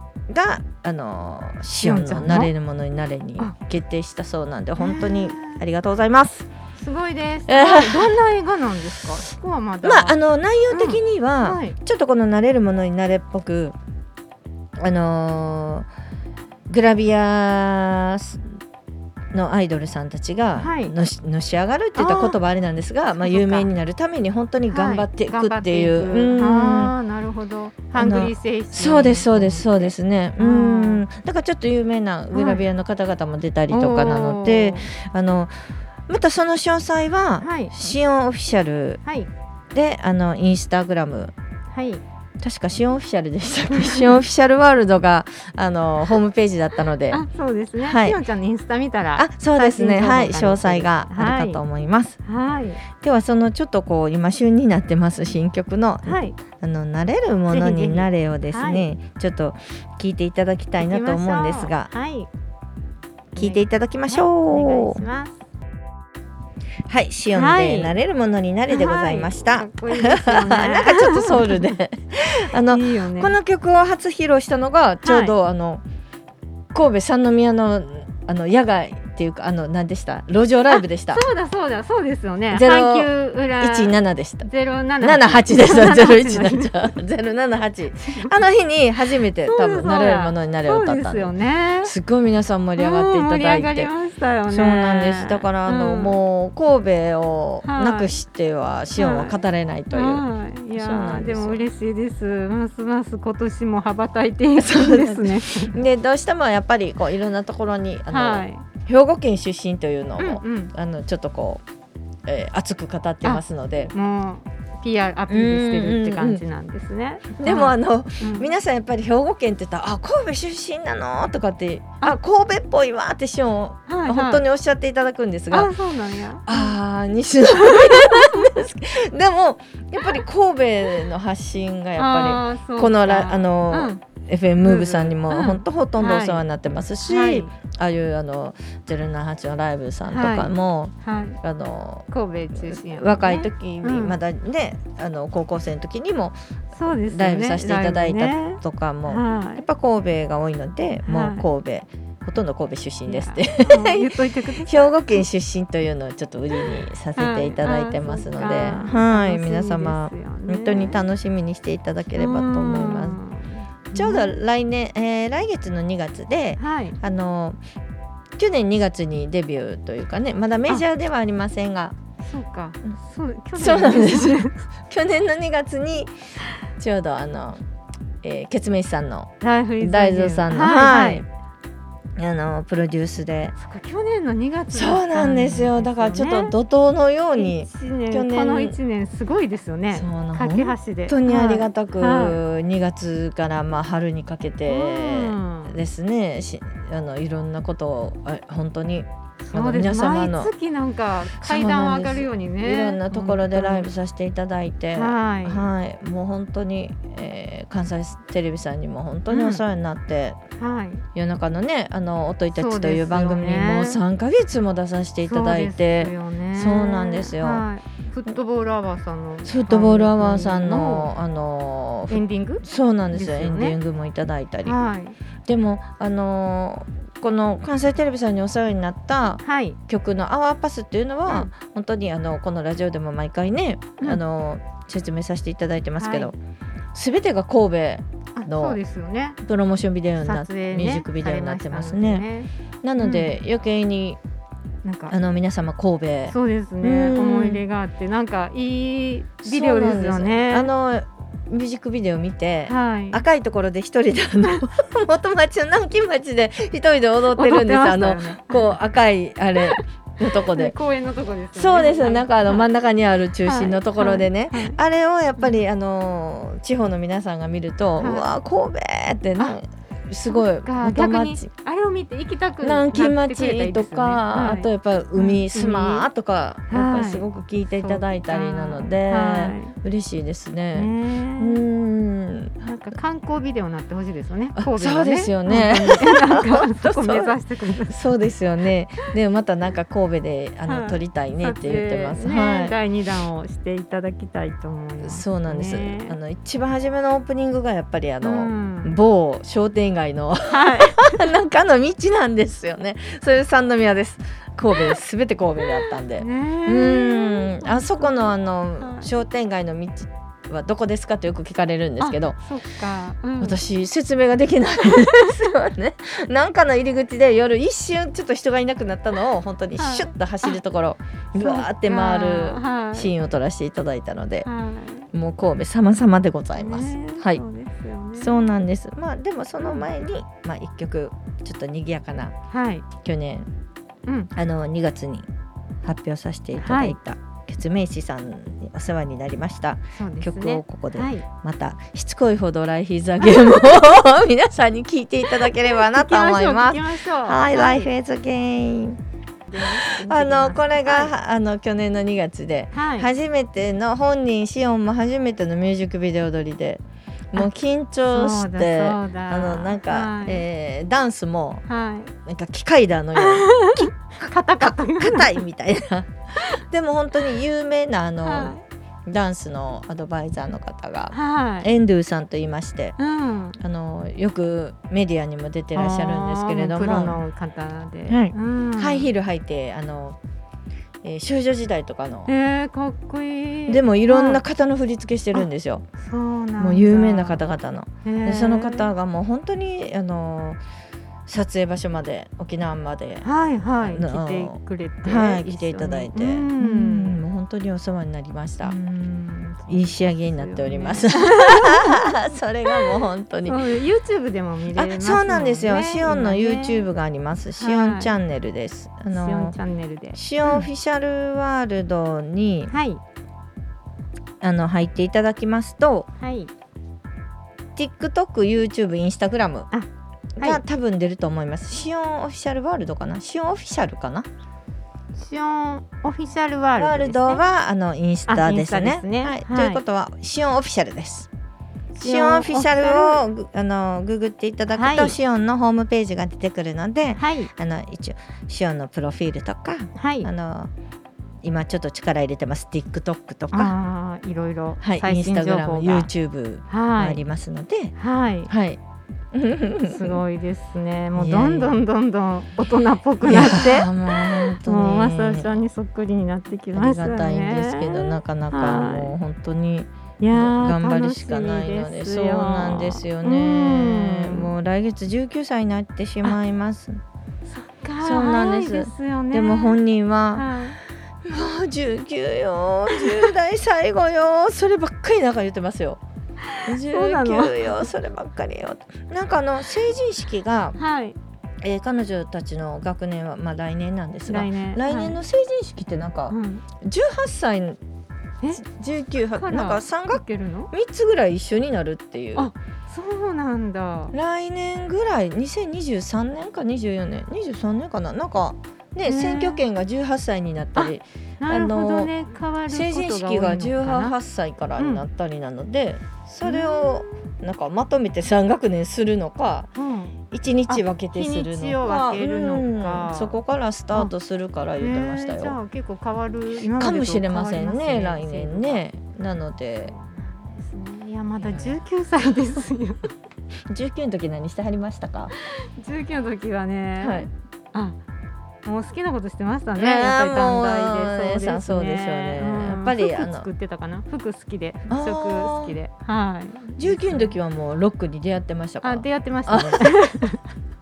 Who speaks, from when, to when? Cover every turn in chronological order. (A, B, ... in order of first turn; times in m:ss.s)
0:00.3-0:06.5 A
0:01.8-0:02.5 B
0:04.8-0:05.6 B
0:06.8-0:10.2 B
0:07.5-0:08.3 A
0:09.8-0:13.8 A
0:10.7-0:11.8 B
0:14.8-0:15.9 A
0:16.7-0:18.6 A
0:19.3-0:26.9 A
0:20.6-0:20.9 B
0:22.0-0:22.4 B
0:23.2-0:23.7 B
0:24.7-0:31.0 B
0:28.0-0:35.6 A
0:32.3-0:32.6 B
0:33.7-0:34.9 B
0:36.1-0:39.0 A
0:37.4-0:37.7 B
0:39.0-0:39.3 B
0:39.7-0:41.3 A
0:41.7-0:42.0 B
0:42.4-0:47.2 A
0:43.7-0:44.2 B
0:47.1-0:51.6 B
0:47.8-0:48.2 A
0:49.2-0:52.2 A
0:52.2-0:52.8 B
0:53.0-1:01.9 A
0:56.1-0:56.4 B
0:57.5-0:58.9 B
1:00.8-1:02.3 B
1:03.4-1:05.0 A
1:03.4-1:05.4 B
1:06.9-1:15.8 A
1:07.3-1:08.0 B
1:08.7-1:11.7 B
1:12.6-1:13.4 B
1:15.0-1:15.3 B
1:16.7-1:21.2 A
1:20.7-1:26.9 B
1:22.5-1:23.1 A
1:23.6-1:24.5 A
1:25.0-1:31.3 A
1:28.0-1:28.4 B
1:29.4-1:31.9 B
1:31.8-1:33.9 A
1:32.8-1:36.2 B
1:34.5-1:41.6 A
1:37.6-1:38.1 B
1:39.0-1:39.4 B
1:39.9-1:45.8 B
1:44.6-1:51.6 A
1:48.1-1:48.6 B
1:50.2-1:50.7 B
1:52.3-1:53.9 A
1:53.9-1:58.5 B
1:55.3-1:56.4 A
1:57.4-2:05.7 A
2:03.9-2:04.4 B
2:05.5-2:06.8 B
2:06.5-2:22.1 A
2:07.6-2:08.5 B
2:12.0-2:14.0 B
2:14.6-2:16.4 B
2:17.0-2:17.5 B
2:20.1-2:21.4 B
2:22.1-2:24.2 B
2:22.6-2:26.4 A
2:26.8-2:29.7 B
2:27.0-2:34.1 A
2:31.0-2:31.4 B
2:33.1-2:35.2 B
2:34.6-2:43.2 A
2:37.2-2:41.0 B
2:42.2-2:44.4 B
2:43.9-2:47.6 A
2:46.6-2:47.0 B
2:48.4-2:52.0 A
2:52.2-2:54.6 B
2:53.6-2:56.1 A
2:56.8-2:57.6 A
2:58.2-2:59.3 A
2:59.4-3:01.2 B
2:59.8-3:01.2 A
3:02.2-3:03.6 A
3:03.6-3:06.6 B
3:04.7-3:08.8 A
3:07.4-3:12.4 B
3:09.9-3:20.5 A
3:14.7-3:15.8 B
3:19.5-3:23.9 B
3:21.4-3:30.4 A
3:24.9-3:25.7 B
3:29.3-3:29.6 B
3:30.6-3:31.0 B
3:31.2-3:37.7 A
3:32.5-3:34.0 B
3:35.2-3:41.1 B
3:39.5-3:44.8 A
3:42.1-3:43.8 B
3:44.6-3:45.2 B
3:45.5-3:56.4 A
3:49.4-3:49.8 B
3:56.0-3:56.3 B
3:56.9-3:58.8 A
3:58.4-3:59.4 B
3:59.4-4:02.2 A
4:00.2-4:03.4 B
4:02.8-4:04.2 A
4:04.8-4:05.1 B
4:05.1-4:07.6 A
4:06.3-4:10.7 B
4:09.4-4:20.8 A
4:12.7-4:13.2 B
4:17.3-4:18.8 B
4:20.4-4:22.7 B
4:21.6-4:31.5 A
4:23.4-4:24.8 B
4:28.0-4:28.3 B
4:30.3-4:36.1 B
4:32.6-4:42.6 A
4:36.7-4:37.2 B
4:37.8-4:39.7 B
4:40.7-4:41.6 B
4:42.6-4:48.0 B
4:44.6-4:47.4 A
4:47.9-4:52.8 A
4:50.7-4:56.2 B
4:55.0-5:12.4 A
4:58.2-4:59.0 B
5:00.5-5:01.2 B
5:05.6-5:09.1 B
5:12.0-5:13.6 B
5:13.4-5:24.5 A
5:14.9-5:15.2 B
5:19.8-5:20.6 B
5:21.4-5:23.1 B
5:24.4-5:25.1 B
5:25.1-5:27.4 A
5:26.6-5:28.4 B
5:28.2-5:32.3 A
5:32.5-5:32.9 B
5:33.0-5:33.5 A
5:34.4-5:35.3 A
5:35.8-5:49.0 A
5:36.6-5:37.0 B
5:39.9-5:41.2 B
5:43.2-5:43.7 B
5:45.8-5:47.9 B
5:49.5-5:51.1 B
5:49.6-6:01.6 A
5:52.7-5:53.1 B
5:58.1-6:00.4 B
6:01.7-6:02.1 B
6:02.3-6:13.0 A
6:03.2-6:05.4 B
6:08.2-6:08.6 B
6:11.1-6:11.7 B
6:13.0-6:13.6 B
6:13.6-6:17.2 A
6:15.8-6:19.1 B
6:18.1-6:20.2 A
6:21.0-6:22.3 A
6:22.3-6:24.4 B
6:23.7-6:25.9 A
6:26.0-6:27.4 B
6:26.6-6:30.6 A
6:28.0-6:28.9 B
6:31.3-6:33.3 A
6:33.2-6:37.2 B
6:33.8-6:38.8 A
6:38.6-6:42.0 B
6:39.7-6:43.6 A
6:43.4-6:46.9 B
6:44.8-6:49.6 A
6:47.6-6:48.1 B
6:49.1-6:50.7 B
6:50.2-6:52.7 A
6:52.7-6:53.0 B
6:54.4-6:56.1 A
6:56.2-6:56.5 B
6:57.8-6:59.7 A
7:00.4-7:04.3 A
7:05.2-7:07.4 B
7:06.8-7:11.3 A
7:08.3-7:09.8 B
7:12.0-7:13.2 B
7:12.0-7:20.7 A
7:14.7-7:15.2 B
7:17.2-7:17.5 B
7:20.0-7:20.3 B
7:21.4-7:23.8 A
7:23.5-7:26.1 B
7:24.8-7:28.0 A
7:26.7-7:27.2 B
7:28.0-7:28.5 B
7:28.5-7:28.8 A
7:29.3-7:30.2 A
7:29.8-7:39.1 B
7:31.2-7:31.8 A
7:33.2-7:35.6 A
7:36.7-7:47.0 A
7:40.2-7:44.5 B
7:47.5-7:49.8 B
7:48.0-7:50.5 A
7:50.4-7:50.8 B
7:51.2-7:56.0 A
7:56.4-7:57.9 B
7:56.6-8:00.8 A
8:00.8-8:01.2 B
8:01.6-8:07.8 A
8:04.3-8:05.2 B
8:06.3-8:06.6 B
8:08.6-8:12.5 A
8:09.3-8:10.7 B
8:12.4-8:14.1 B
8:14.1-8:22.1 A
8:19.0-8:19.6 B
8:20.8-8:24.2 B
8:22.7-8:29.7 A
8:24.8-8:25.0 B
8:26.4-8:27.0 B
8:29.8-8:30.2 B
8:30.3-8:35.6 A
8:30.7-8:33.4 B
8:34.8-8:38.8 B
8:36.8-8:39.9 A
8:39.8-8:43.1 B
8:41.5-8:41.8 A
8:43.7-8:45.3 A
8:45.4-8:48.0 B
8:47.0-8:47.3 A
8:48.6-8:57.3 B
8:49.8-8:53.5 A
8:54.9-8:55.8 A
8:56.8-9:00.2 A
8:58.8-9:00.4 B